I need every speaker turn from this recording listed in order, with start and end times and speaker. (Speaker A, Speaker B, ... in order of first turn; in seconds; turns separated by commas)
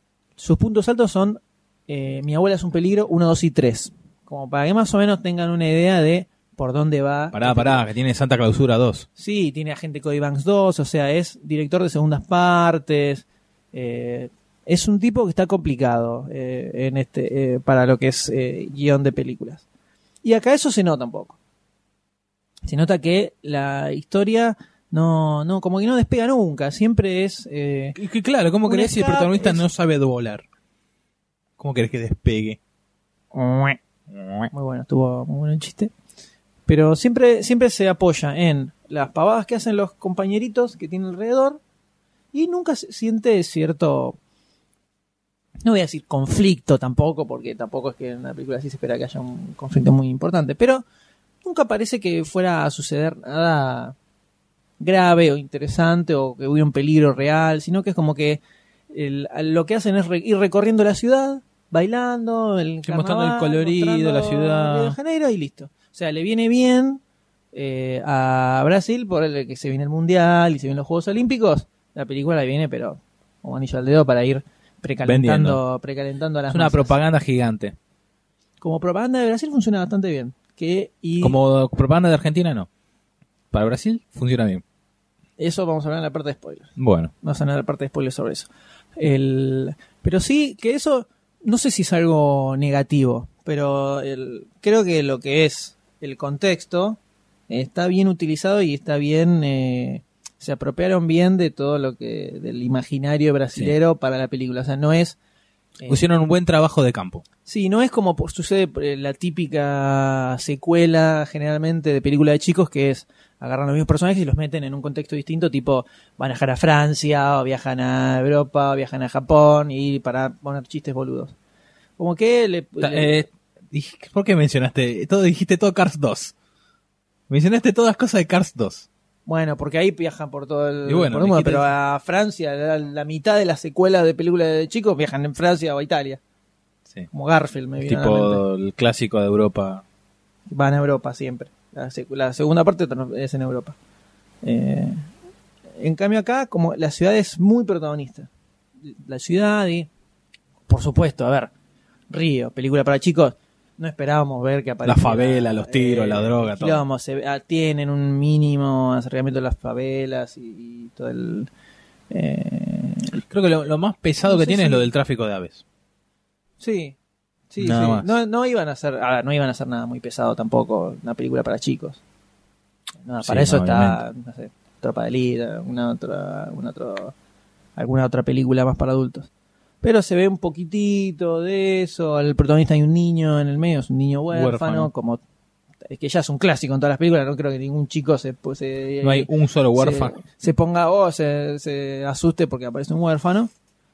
Speaker A: 0.4-7.8, Speaker B: 7.3-9.1, Speaker A: 9.2-19.6, Speaker A: 20.2-21.4, Speaker A: 22.6-28.0, Speaker B: 27.9-30.4, Speaker A: 28.6-29.6, Speaker B: 31.6-32.6, Speaker A: 33.3-33.8, Speaker B: 34.1-34.5, Speaker A: 34.5-35.9, Speaker A: 36.7-41.6, Speaker A: 42.3-44.2, Speaker A: 45.6-50.8, Speaker A: 51.4-54.0, Speaker A: 54.8-67.0, Speaker B: 62.8-65.0, Speaker A: 67.5-77.0, Speaker B: 75.0-75.6, Speaker B: 76.5-77.8, Speaker A: 78.6-81.4, Speaker B: 81.2-82.7, Speaker B: 83.5-84.6, Speaker A: 85.4-86.7, Speaker B: 86.8-87.1, Speaker A: 87.2-97.0, Speaker A: 97.5-105.2, Speaker B: 105.9-107.2, Speaker A: 107.5-121.3, Speaker A: 122.0-123.3, Speaker B: 122.8-126.3, Speaker B: 127.3-128.9, Speaker A: 129.3-136.2, Speaker B: 130.9-131.7, Speaker A: 137.1-138.4, Speaker B: 137.8-139.8, Speaker A: 140.5-143.8, Speaker A: 144.4-145.1, Speaker A: 145.8-148.3, Speaker A: 148.8-149.9, Speaker A: 150.7-151.5, Speaker A: 152.1-161.5, Speaker B: 154.8-156.8, Speaker A: 162.1-163.2, Speaker B: 163.1-165.6, Speaker A: 164.3-164.9, Speaker A: 166.6-167.0, Speaker A: 167.5-172.0, Speaker B: 167.6-168.1, Speaker A: 173.0-177.1, Speaker B: 173.2-174.0, Speaker A: 177.8-179.3, Speaker A: 179.8-185.2, Speaker B: 184.3-184.9, Speaker A: 185.9-193.5, Speaker B: 189.0-190.2